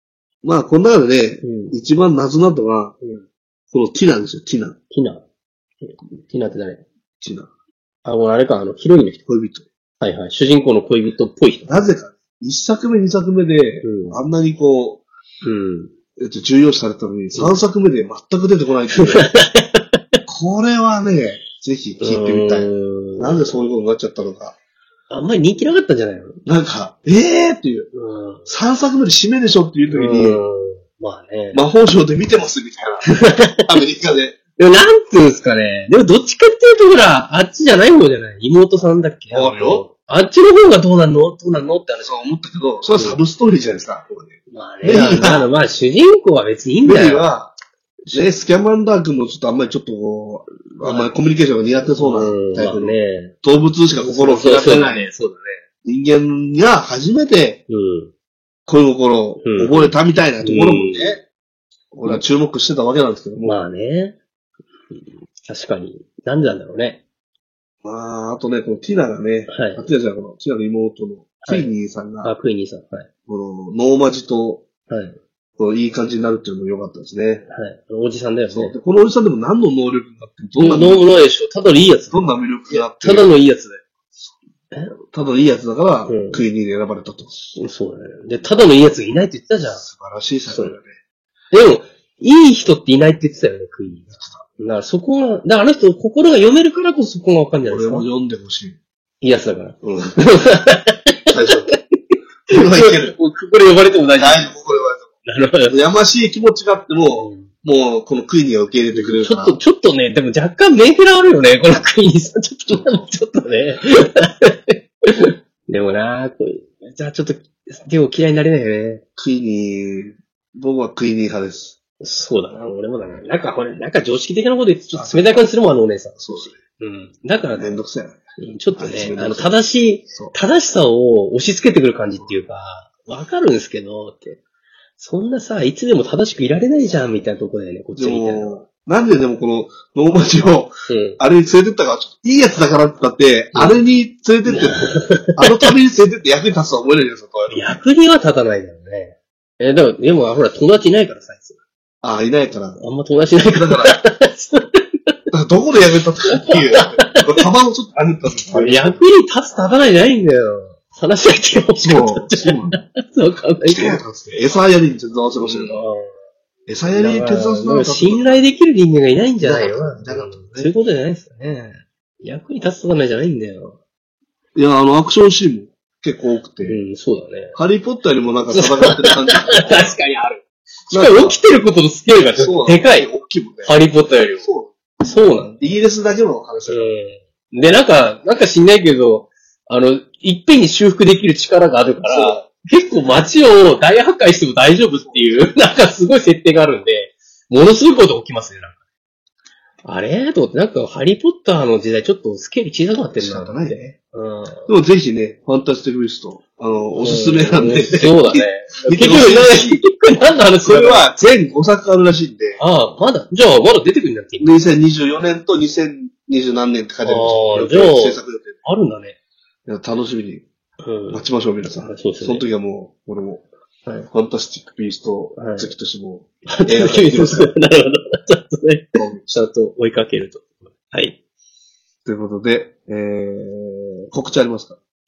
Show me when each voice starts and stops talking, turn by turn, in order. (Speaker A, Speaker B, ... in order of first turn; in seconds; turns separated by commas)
Speaker A: 0.4-2.9, Speaker B: 1.4-1.8, Speaker A: 3.7-4.8, Speaker B: 4.9-5.2, Speaker B: 5.8-6.8, Speaker A: 7.2-7.5, Speaker B: 8.0-9.2, Speaker A: 9.3-9.7, Speaker B: 10.0-11.7, Speaker A: 11.7-15.0, Speaker B: 13.8-14.2, Speaker B: 15.4-15.9, Speaker A: 16.2-19.3, Speaker B: 17.3-17.6, Speaker B: 18.9-20.2, Speaker A: 20.3-24.6, Speaker B: 22.0-23.5, Speaker B: 25.1-26.4, Speaker A: 26.4-27.9, Speaker B: 27.9-28.5, Speaker A: 28.5-30.4, Speaker B: 29.9-31.6, Speaker A: 31.5-34.4, Speaker B: 33.1-33.8, Speaker B: 34.6-42.2, Speaker A: 39.3-39.9, Speaker A: 42.0-45.5, Speaker B: 44.5-47.3, Speaker A: 46.8-47.5, Speaker A: 48.1-55.1, Speaker B: 50.8-51.1, Speaker B: 52.0-53.4, Speaker B: 53.9-55.6, Speaker A: 55.8-57.6, Speaker B: 57.7-58.1, Speaker A: 58.7-61.2, Speaker B: 59.4-61.2, Speaker A: 61.9-63.5, Speaker B: 63.4-64.2, Speaker B: 64.9-67.0, Speaker A: 67.8-72.3, Speaker B: 69.5-69.9, Speaker B: 71.4-71.7, Speaker B: 72.2-73.1, Speaker A: 73.3-74.6, Speaker B: 74.9-75.2, Speaker A: 75.6-77.5, Speaker B: 77.5-78.7, Speaker A: 78.5-81.1, Speaker B: 80.6-83.8, Speaker A: 82.1-83.3, Speaker A: 85.1-87.5, Speaker B: 86.1-86.4, Speaker B: 87.5-89.8, Speaker A: 89.7-90.9, Speaker B: 90.5-90.8, Speaker B: 91.5-98.1, Speaker A: 94.1-94.4, Speaker A: 97.7-98.8, Speaker B: 99.2-104.5, Speaker A: 99.8-100.2, Speaker A: 101.3-101.7, Speaker A: 102.5-103.2, Speaker A: 104.2-105.1, Speaker B: 105.2-105.7, Speaker A: 105.7-109.6, Speaker B: 107.2-107.5, Speaker B: 108.9-119.0, Speaker A: 112.7-113.0, Speaker A: 119.2-121.8, Speaker B: 122.0-127.8, Speaker A: 124.9-125.4, Speaker A: 126.2-126.5, Speaker A: 127.5-128.2, Speaker B: 128.4-134.4, Speaker A: 128.8-129.5, Speaker B: 135.0-138.6, Speaker A: 137.9-147.8, Speaker B: 140.9-141.2, Speaker B: 143.5-143.8, Speaker B: 144.4-145.7, Speaker B: 147.5-151.6, Speaker A: 152.0-152.8, Speaker B: 152.8-155.2, Speaker A: 153.3-154.0, Speaker A: 155.3-159.0, Speaker B: 156.3-157.4, Speaker B: 158.5-164.0, Speaker A: 161.8-162.8, Speaker A: 163.6-165.8, Speaker B: 165.4-166.1, Speaker A: 166.7-168.4, Speaker B: 166.9-173.8, Speaker A: 169.4-170.7, Speaker A: 174.5-176.8, Speaker B: 176.6-177.6, Speaker A: 177.5-180.0, Speaker B: 178.5-183.1, Speaker A: 180.9-181.4, Speaker A: 182.3-186.9, Speaker B: 183.6-184.5, Speaker B: 185.0-185.5, Speaker B: 186.7-198.8, Speaker A: 192.0-192.5, Speaker A: 195.0-195.5, Speaker B: 199.8-204.7, Speaker A: 203.2-203.9, Speaker A: 204.7-209.8, Speaker B: 207.0-211.1, Speaker A: 210.6-212.6, Speaker B: 212.6-214.6, Speaker A: 214.4-218.6, Speaker B: 217.0-219.2, Speaker A: 219.7-220.4, Speaker B: 220.8-221.2, Speaker A: 221.1-223.4, Speaker B: 221.8-222.4, Speaker A: 224.1-227.5, Speaker B: 225.4-225.7, Speaker B: 226.5-231.2, Speaker A: 228.9-229.2, Speaker A: 232.0-234.8